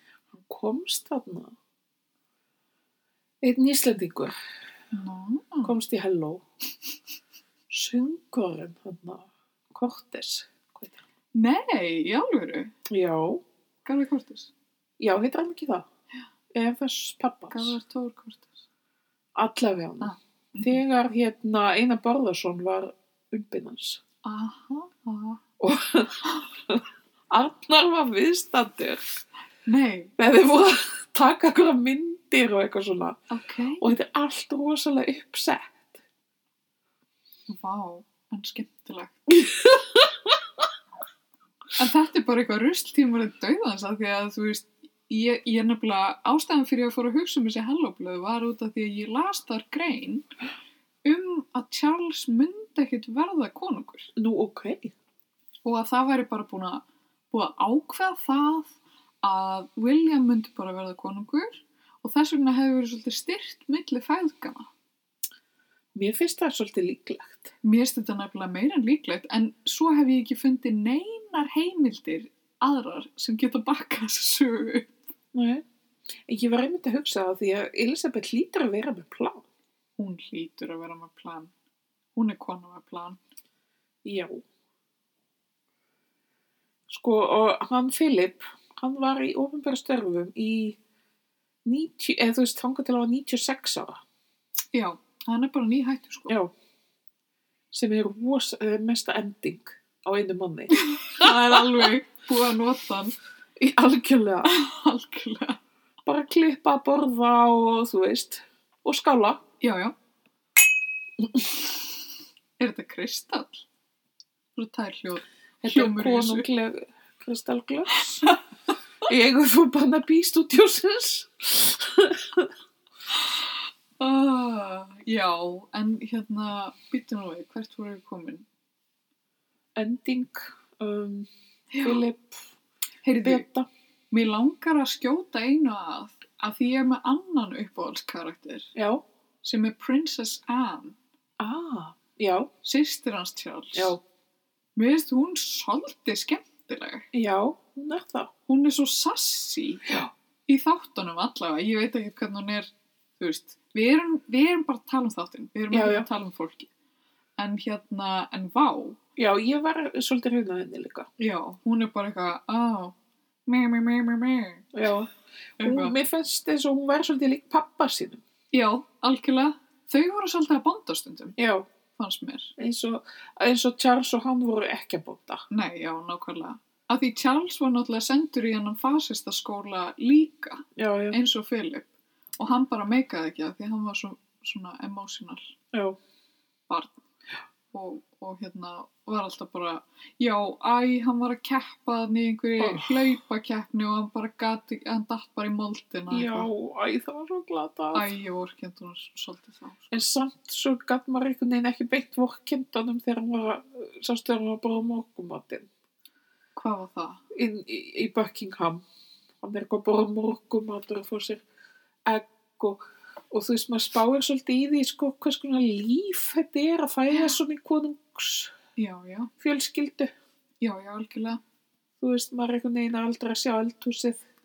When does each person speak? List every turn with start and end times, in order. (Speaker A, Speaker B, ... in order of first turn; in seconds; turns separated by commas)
Speaker A: 0.3-1.5, Speaker A: 3.4-4.3, Speaker B: 4.9-5.8, Speaker A: 5.6-6.4, Speaker A: 7.7-11.0, Speaker B: 11.3-12.7, Speaker A: 12.9-13.4, Speaker B: 13.8-14.5, Speaker A: 15.0-15.9, Speaker A: 16.5-17.8, Speaker B: 17.5-18.6, Speaker A: 19.4-24.0, Speaker B: 20.0-20.8, Speaker B: 24.2-25.4, Speaker A: 25.6-29.0, Speaker B: 29.7-30.1, Speaker A: 30.2-33.2, Speaker B: 33.3-33.9, Speaker A: 33.8-36.0, Speaker B: 37.5-39.2, Speaker A: 39.4-40.1, Speaker B: 41.8-50.2, Speaker B: 51.0-54.1, Speaker A: 54.1-54.9, Speaker B: 55.6-64.7, Speaker A: 65.9-67.5, Speaker B: 67.6-74.9, Speaker A: 75.3-75.6, Speaker A: 76.3-79.4, Speaker B: 80.0-81.5, Speaker B: 82.2-83.2, Speaker A: 84.0-84.4, Speaker A: 86.9-90.8, Speaker A: 91.6-94.0, Speaker B: 94.7-96.3, Speaker A: 97.7-101.8, Speaker B: 100.7-103.2, Speaker A: 103.6-104.5, Speaker B: 104.4-105.6, Speaker A: 106.0-109.4, Speaker B: 109.6-109.9, Speaker B: 112.6-113.6, Speaker B: 114.5-116.5, Speaker A: 115.6-118.3, Speaker A: 119.0-122.5, Speaker B: 124.0-128.4, Speaker A: 129.8-131.3, Speaker B: 131.7-132.0, Speaker A: 131.8-132.4, Speaker B: 133.0-133.4, Speaker A: 133.2-133.7, Speaker B: 134.1-138.7, Speaker A: 138.7-139.0, Speaker B: 139.4-140.9, Speaker A: 141.4-142.5, Speaker B: 142.6-143.9, Speaker A: 143.7-144.0, Speaker B: 144.8-147.1, Speaker A: 147.1-148.3, Speaker B: 148.5-149.9, Speaker B: 150.5-156.7, Speaker A: 155.7-156.1, Speaker B: 157.4-159.0, Speaker A: 159.2-161.1, Speaker B: 161.2-162.9, Speaker B: 163.4-164.7, Speaker A: 164.7-168.2, Speaker B: 165.6-165.9, Speaker B: 168.5-171.3, Speaker A: 171.4-171.7, Speaker B: 171.9-172.5, Speaker A: 172.6-175.4, Speaker B: 175.5-185.5, Speaker A: 180.8-181.2, Speaker B: 186.7-187.0, Speaker B: 187.7-196.5, Speaker A: 192.6-192.9, Speaker A: 196.1-198.1, Speaker B: 197.9-200.0, Speaker A: 199.9-205.7, Speaker B: 206.6-207.2, Speaker A: 207.3-208.8, Speaker A: 209.4-211.4, Speaker A: 212.1-218.5, Speaker B: 217.1-217.3, Speaker B: 218.8-219.3, Speaker A: 219.4-220.1, Speaker B: 220.6-221.4, Speaker A: 222.0-224.2